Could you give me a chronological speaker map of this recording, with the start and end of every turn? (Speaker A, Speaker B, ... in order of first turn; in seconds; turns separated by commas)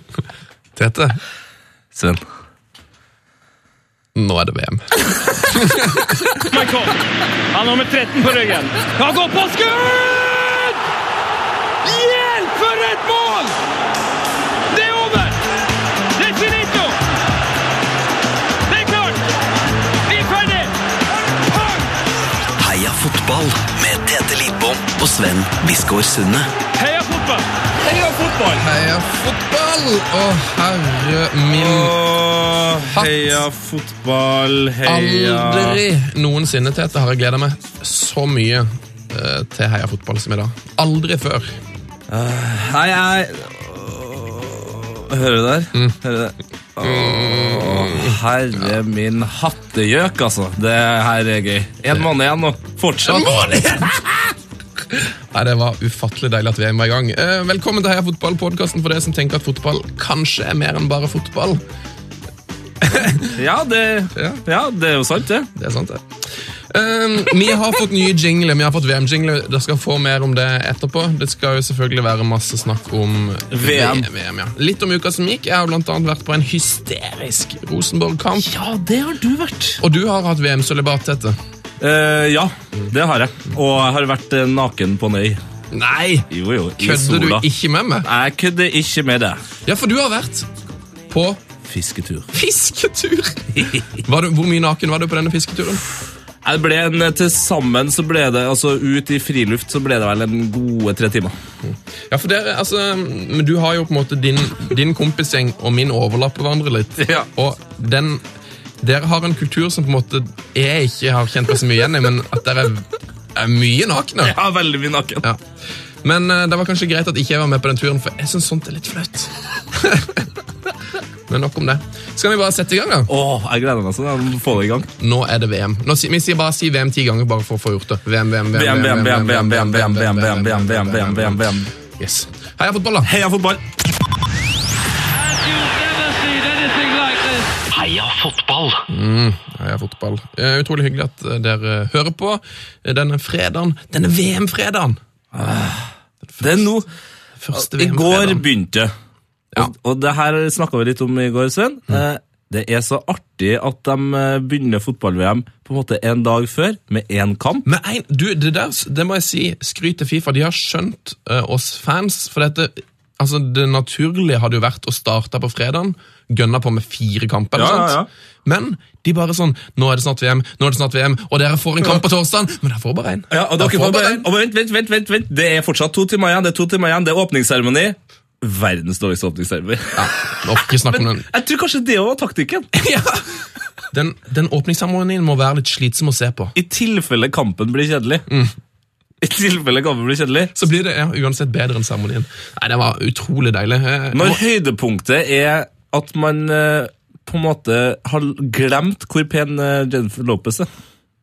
Speaker A: 0.8-1.2, Speaker B: 1.9-2.2, Speaker A: 4.1-4.8, Speaker A: 5.4-6.5, Speaker C: 6.5-7.0, Speaker C: 7.5-10.7, Speaker C: 11.9-13.5, Speaker C: 14.7-15.4, Speaker C: 16.2-16.9, Speaker C: 18.7-19.2, Speaker C: 20.1-20.7, Speaker D: 22.6-26.5, Speaker C: 26.8-27.4, Speaker B: 27.8-28.6, Speaker A: 28.6-32.0, Speaker B: 31.5-35.8, Speaker A: 32.9-33.4, Speaker A: 34.8-41.5, Speaker B: 42.1-54.1, Speaker A: 46.8-48.2, Speaker A: 53.0-54.0, Speaker A: 54.9-61.6, Speaker A: 62.8-63.4, Speaker B: 63.4-65.5, Speaker A: 65.5-66.0, Speaker A: 66.7-78.5, Speaker B: 73.5-74.1, Speaker B: 78.3-79.8, Speaker A: 79.8-81.4, Speaker B: 81.8-85.4, Speaker A: 85.7-86.3, Speaker B: 86.3-87.5, Speaker A: 86.8-88.0, Speaker B: 88.0-89.4, Speaker A: 89.7-90.5, Speaker A: 91.1-91.4, Speaker B: 91.6-92.3, Speaker A: 92.3-95.8, Speaker B: 93.5-93.8, Speaker B: 96.4-101.3, Speaker A: 101.6-108.2, Speaker B: 107.0-107.3, Speaker A: 108.8-114.4, Speaker B: 114.2-115.3, Speaker A: 116.0-120.3, Speaker A: 121.3-123.1, Speaker B: 123.1-124.9, Speaker A: 125.0-133.1, Speaker B: 128.5-131.7, Speaker B: 133.0-133.6, Speaker C: 135.7-137.2, Speaker D: 137.7-138.8, Speaker A: 138.9-145.0, Speaker B: 145.3-146.9, Speaker A: 146.3-146.7, Speaker A: 147.4-148.4, Speaker B: 147.5-148.9, Speaker B: 149.6-157.7, Speaker A: 157.7-174.3, Speaker B: 167.5-168.1, Speaker B: 173.3-182.7, Speaker A: 180.0-181.2, Speaker A: 182.8-183.2, Speaker A: 183.9-186.5, Speaker B: 186.5-188.3, Speaker B: 189.2-190.5, Speaker A: 190.5-194.4, Speaker B: 194.1-200.7